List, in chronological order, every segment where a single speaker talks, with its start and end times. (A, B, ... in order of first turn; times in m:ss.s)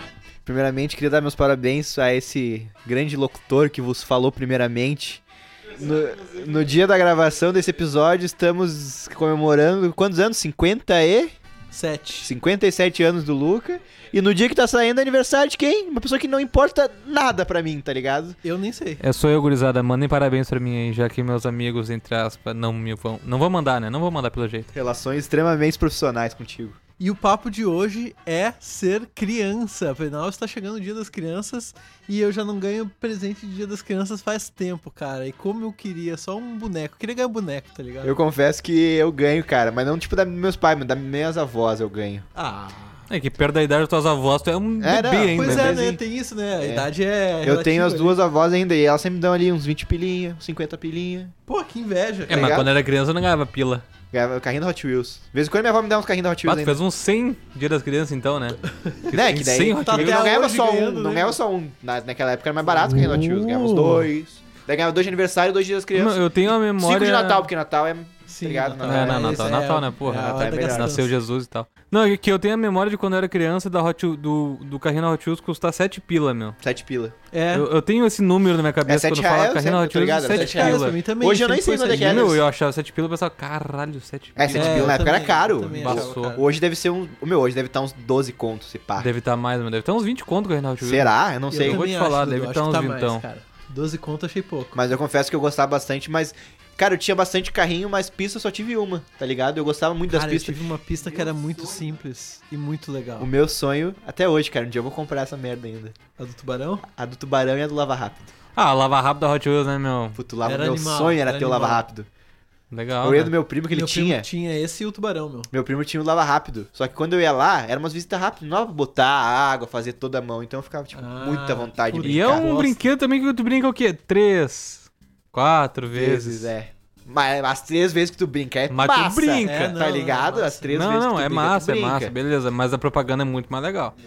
0:00.4-0:05.2 A
0:05.7-0:11.3 A
0:11.7-0:12.3 B
0:12.2-0:18.4 A
0:18.4-0:19.0 B
0:19.0-0:24.7 C
0:24.7-0:26.8 A
0:27.0-0:38.2 B
0:38.0-0:42.2 A
0:42.3-0:43.0 B
0:43.1-0:46.0 C
0:44.8-0:45.9 A
0:45.3-0:48.2 B
0:46.6-0:46.9 A
0:47.4-0:51.3 A
0:51.5-0:52.6 B
0:52.3-0:53.8 C
0:52.3-0:52.7 A
0:54.1-0:56.8 A
0:56.4-0:58.6 C
0:58.7-0:59.1 B
0:59.1-1:00.2 C
0:59.1-1:09.5 A
0:59.8-1:01.4 B
1:02.6-1:04.1 B
1:05.9-1:07.5 C
1:08.3-1:11.1 B
1:08.8-1:16.6 C
1:10.2-1:11.0 A
1:16.6-1:17.1 A
1:17.3-1:17.7 B
1:17.5-1:21.0 C
1:18.8-1:22.4 A
1:20.3-1:22.4 B
1:21.9-1:25.0 C
1:24.4-1:29.1 A
1:24.5-1:26.5 B
1:25.7-1:26.4 C
1:29.0-1:33.2 C
1:30.8-1:31.8 A
1:31.5-1:34.8 B
1:34.7-1:40.6 A
1:40.1-1:43.3 B
1:43.2-1:45.9 A
1:46.2-1:46.8 B
1:46.8-1:48.3 A
1:48.6-1:50.2 C
1:50.2-1:52.1 A
1:50.4-1:51.8 B
1:52.7-1:53.3 C
1:53.0-1:54.2 A
1:53.7-1:55.5 B
1:55.5-2:02.5 A
2:00.9-2:02.9 B
2:02.0-2:06.5 C
2:05.9-2:12.1 A
2:08.7-2:09.8 C
2:09.4-2:10.7 B
2:10.7-2:13.9 C